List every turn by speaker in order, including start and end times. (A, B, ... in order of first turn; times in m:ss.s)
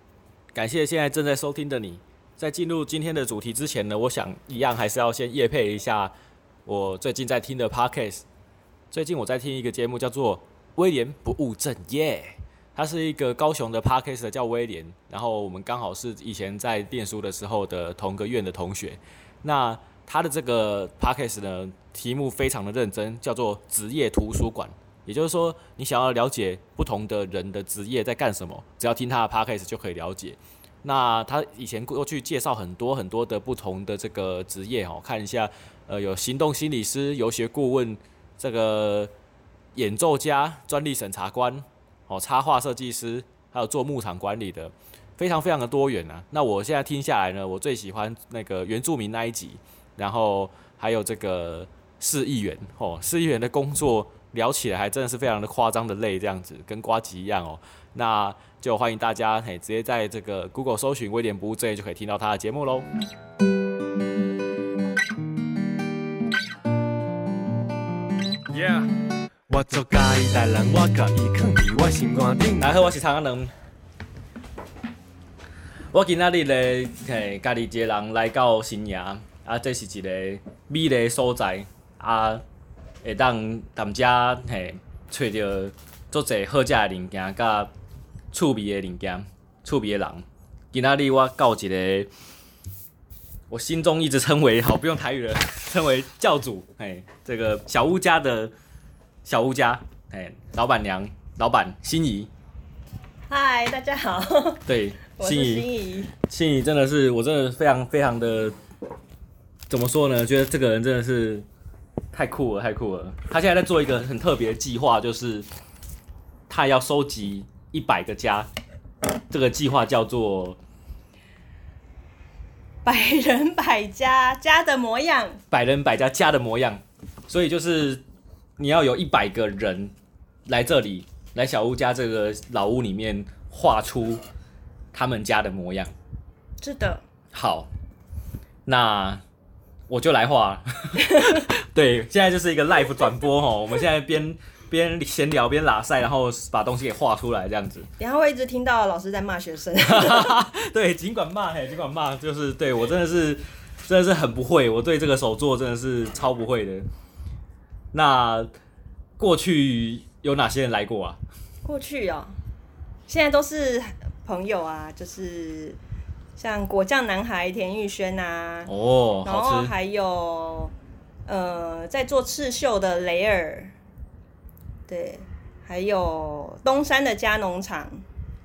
0:00.5-0:06.1 A
0:06.6-0:08.2 A
0:08.9-0:39.1 A
0:39.7-1:02.9 A
1:08.5-1:08.8 B
1:09.5-1:12.9 B
1:12.6-1:13.5 A
1:15.9-1:22.4 A
1:23.0-1:27.7 A
1:28.3-1:32.1 A
1:33.5-1:38.5 A
1:39.2-1:42.3 A
1:43.3-1:46.1 C
1:44.6-1:45.6 A
1:46.2-1:48.6 A
1:49.7-1:51.4 A
1:52.1-1:55.5 A
1:56.5-1:58.5 A
1:59.3-2:00.6 A
2:02.8-2:05.4 C
2:05.5-2:08.0 A
2:08.6-2:09.9 A
2:10.5-2:14.2 A
2:14.9-2:15.9 A
2:16.6-2:17.0 C
2:17.3-2:17.7 A
2:18.6-2:19.2 A
2:19.9-2:27.9 A
2:21.0-2:21.4 C
2:28.0-2:30.4 C
2:29.8-2:36.8 A
2:37.9-2:38.5 A
2:39.2-2:41.2 A
2:41.6-2:42.4 C
2:43.1-2:45.8 C
2:46.4-2:48.7 C
2:48.6-2:49.7 A
2:49.2-2:50.7 C
2:51.2-2:53.7 C
2:54.9-2:58.0 C